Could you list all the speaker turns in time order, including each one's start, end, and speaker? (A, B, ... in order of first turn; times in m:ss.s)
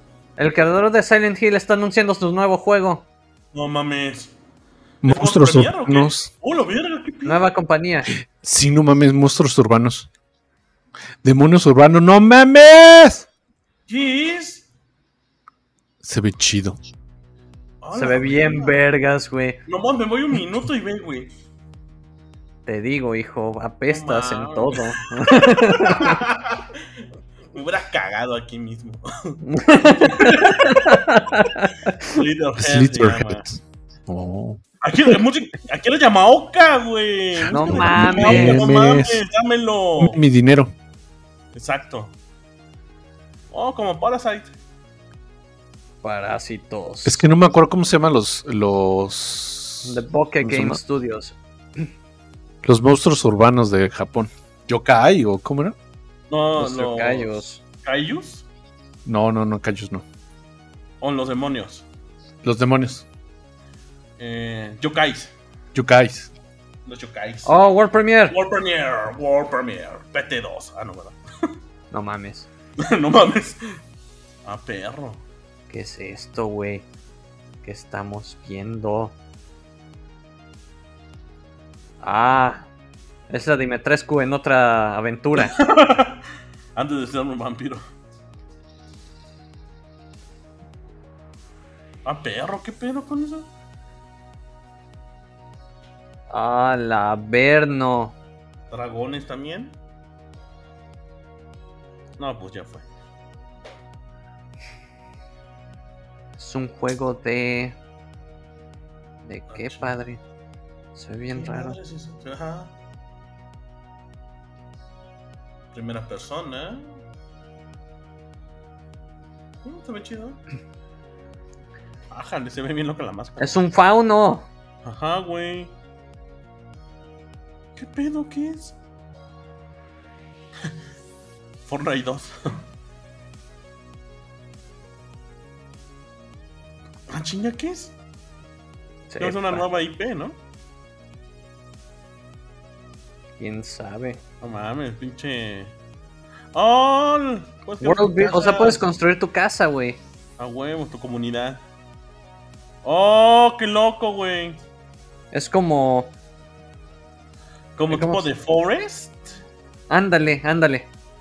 0:00.4-0:03.1 A
0:03.5-0:04.3 B
0:05.0-0:06.3 C
0:05.0-0:07.6 B
0:07.3-0:08.1 A
0:08.3-0:10.1 C
0:11.2-0:13.3 C
0:13.9-0:14.7 B
0:16.0-0:16.8 C
0:17.8-0:18.8 B
0:17.9-0:19.6 A
0:19.7-0:21.3 B
0:22.6-0:26.2 A
0:23.9-0:26.8 B
0:27.5-0:31.0 B
0:29.4-0:32.2 A
0:32.1-0:33.4 B
0:32.6-0:34.6 C
0:34.8-0:40.2 B
0:37.5-0:38.6 A
0:37.5-0:39.2 C
0:40.0-0:40.7 C
0:41.5-0:42.2 B
0:43.5-0:44.5 B
0:46.0-0:47.2 A
0:47.0-0:50.8 C
0:49.8-0:51.9 A
0:52.6-0:55.8 C
0:56.3-0:58.4 B
0:56.6-0:57.6 A
0:59.0-1:00.0 C
1:01.0-1:01.8 B
1:02.4-1:03.0 C
1:04.2-1:05.3 B
1:05.7-1:06.3 C
1:06.8-1:07.6 B
1:07.4-1:08.4 A
1:08.3-1:11.2 B
1:11.9-1:12.5 A
1:12.8-1:13.6 B
1:14.4-1:15.2 B
1:15.7-1:16.9 A
1:17.6-1:19.2 A
1:22.0-1:22.7 A
1:23.3-1:25.6 A
1:25.4-1:26.2 B
1:26.8-1:27.8 B
1:32.0-1:33.5 B
1:36.3-1:38.2 A
1:38.7-1:39.8 B
1:42.2-1:42.8 B
1:46.4-1:47.8 A
1:49.2-1:50.2 A
1:49.5-1:50.0 B
1:51.0-1:51.8 A
1:51.3-1:52.7 B
1:55.7-1:57.0 B
1:59.6-2:00.4 B
2:02.1-2:03.6 B
2:03.4-2:04.5 A
2:04.8-2:05.7 B
2:07.8-2:08.8 B
2:11.6-2:12.4 B
2:17.1-2:17.9 B
2:19.1-2:19.6 A
2:19.2-2:20.4 B
2:23.4-2:24.2 A
2:24.4-2:25.7 B
2:26.5-2:28.8 B
2:27.8-2:30.0 A
2:30.4-2:31.6 B
2:32.8-2:34.6 B
2:35.3-2:36.1 A
2:37.8-2:39.4 B
2:37.9-2:38.3 A
2:39.9-2:40.9 A